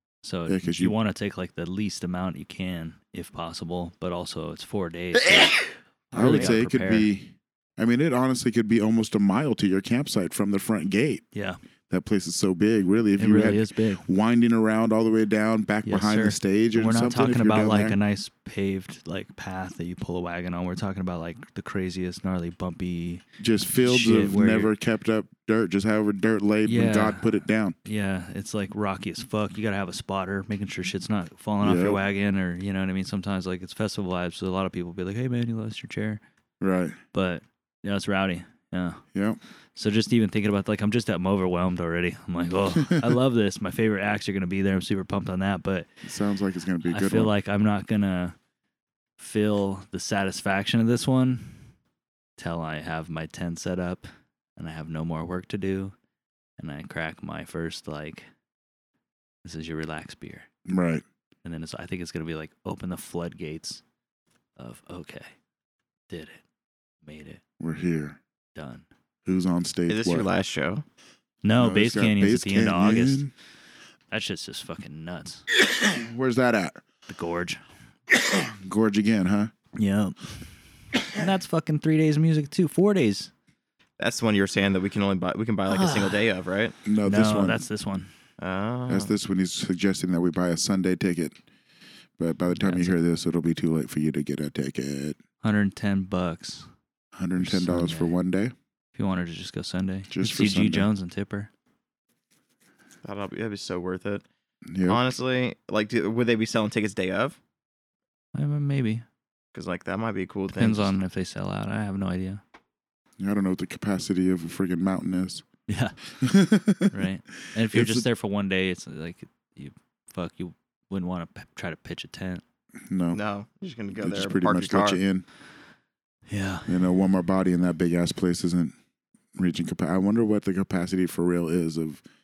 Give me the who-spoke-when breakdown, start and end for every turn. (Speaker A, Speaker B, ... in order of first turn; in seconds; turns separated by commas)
Speaker A: 0.2-7.1, Speaker B: 0.5-0.9, Speaker B: 6.1-11.2, Speaker C: 6.2-6.5, Speaker A: 11.3-11.6, Speaker B: 11.9-18.0, Speaker A: 13.2-14.0, Speaker A: 15.9-23.2, Speaker B: 23.4-27.8, Speaker A: 23.8-24.7, Speaker A: 26.6-36.2, Speaker B: 31.6-32.0, Speaker B: 36.6-37.0, Speaker A: 37.1-39.0, Speaker B: 39.1-39.4, Speaker A: 39.8-45.9, Speaker B: 42.8-43.1, Speaker B: 46.0-47.3, Speaker A: 46.9-48.4, Speaker A: 49.2-51.6, Speaker A: 52.4-56.0, Speaker A: 56.6-58.3, Speaker A: 59.4-60.5, Speaker B: 60.7-61.0, Speaker A: 61.4-63.8, Speaker A: 64.6-65.3, Speaker A: 66.1-66.4, Speaker A: 67.0-67.4, Speaker B: 67.6-68.2, Speaker A: 68.5-68.9, Speaker B: 69.2-70.3, Speaker C: 69.9-70.8, Speaker A: 71.4-73.2, Speaker B: 71.6-73.3, Speaker A: 74.1-75.4, Speaker B: 75.7-76.8, Speaker A: 77.1-77.6, Speaker B: 78.1-79.5, Speaker A: 79.8-80.4, Speaker A: 81.1-83.3, Speaker C: 84.0-86.8, Speaker A: 85.7-86.2, Speaker B: 86.8-87.6, Speaker A: 87.0-88.1, Speaker C: 88.4-89.1, Speaker B: 88.9-91.4, Speaker B: 92.2-95.2, Speaker A: 92.5-93.0, Speaker A: 95.4-96.7, Speaker B: 97.2-98.5, Speaker A: 97.4-98.2, Speaker A: 99.0-101.5, Speaker B: 100.1-100.9, Speaker C: 103.0-104.2, Speaker B: 104.7-105.0, Speaker C: 104.9-107.4, Speaker A: 108.3-109.0, Speaker C: 109.5-110.9, Speaker A: 110.5-112.4, Speaker B: 113.2-115.4, Speaker A: 115.7-116.0, Speaker B: 116.2-116.9, Speaker A: 116.9-122.4, Speaker B: 117.7-118.0, Speaker B: 122.9-123.2, Speaker C: 123.1-125.0, Speaker B: 124.0-125.2, Speaker A: 126.3-126.9, Speaker B: 126.7-128.7, Speaker B: 129.4-132.0